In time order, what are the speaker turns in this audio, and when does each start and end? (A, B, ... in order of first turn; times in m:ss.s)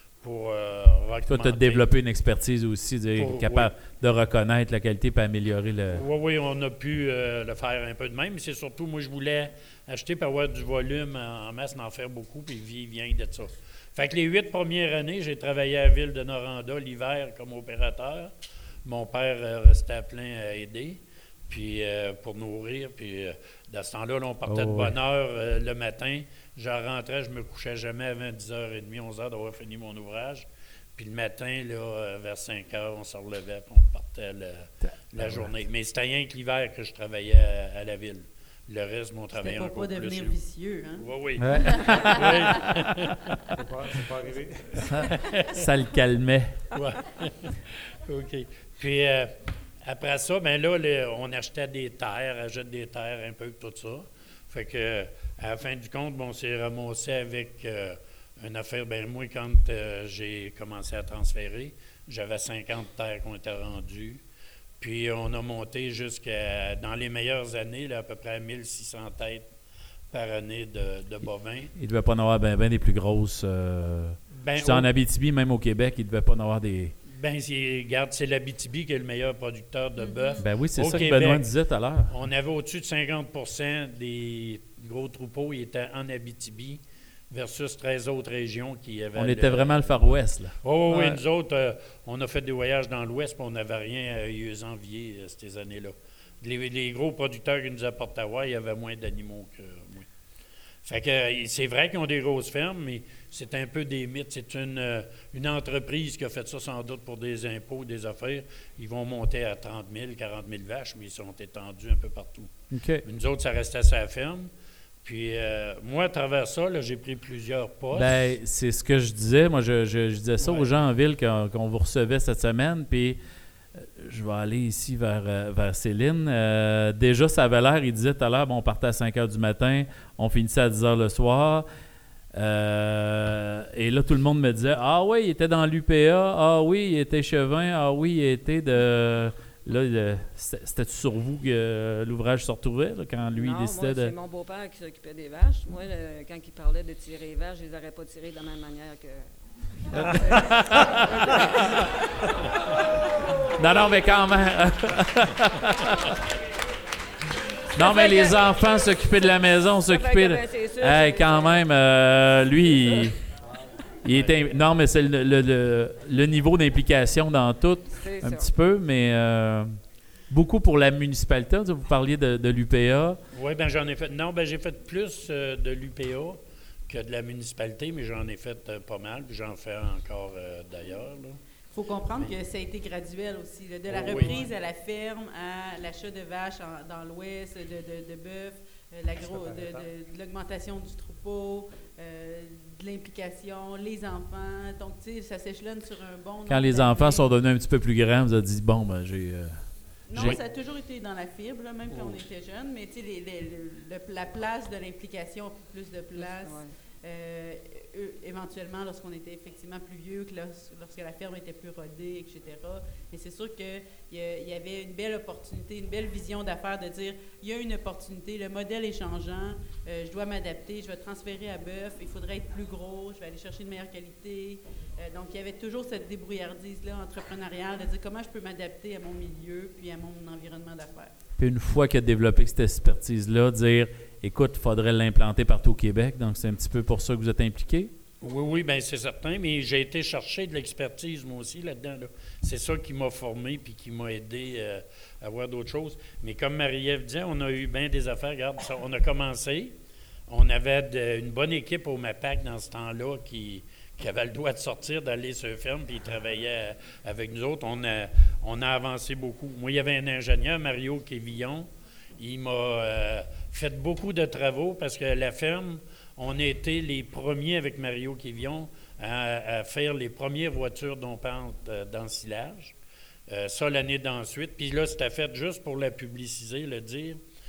0:00.2-0:01.9 A
0:01.3-0:06.0 B
0:03.2-0:03.7 A
0:05.9-0:18.3 A
0:18.8-0:40.4 A
0:24.5-0:25.0 B
0:35.2-0:35.5 B
0:39.3-0:41.1 C
0:41.0-0:43.3 A
0:41.4-0:42.3 B
0:43.6-0:45.0 D
0:45.0-0:45.5 A
0:45.5-0:46.6 B
0:46.7-0:49.3 A
0:49.8-1:04.2 A
1:04.8-1:09.5 A
1:10.1-1:11.7 A
1:11.8-1:16.9 B
1:14.3-1:14.9 A
1:17.1-1:21.5 A
1:20.4-1:22.1 B
1:22.1-1:30.0 A
1:29.2-1:31.2 B
1:30.6-1:40.1 A
1:40.8-1:52.5 A
1:52.7-1:53.0 B
1:53.0-1:54.5 A
1:55.0-1:58.2 A
1:57.9-2:03.2 B
2:00.4-2:00.7 A
2:03.8-2:11.6 B
2:12.4-2:24.1 B
2:23.3-2:31.8 E
2:29.9-2:30.9 B
2:33.6-2:36.0 B
2:37.7-2:43.2 B
2:37.8-2:38.5 E
2:39.8-2:41.7 E
2:42.7-2:43.1 E
2:44.0-2:49.8 B
2:47.9-2:48.5 E
2:50.3-2:53.2 B
2:53.3-3:01.4 A
3:01.7-3:17.2 C
3:03.9-3:04.5 A
3:09.3-3:09.8 D
3:16.5-3:19.6 B
3:20.1-3:51.2 C
3:20.1-3:20.4 B
3:26.2-3:26.7 E
3:51.4-3:57.9 B
3:58.2-4:09.8 A
4:10.3-4:32.8 A
4:33.3-4:37.2 A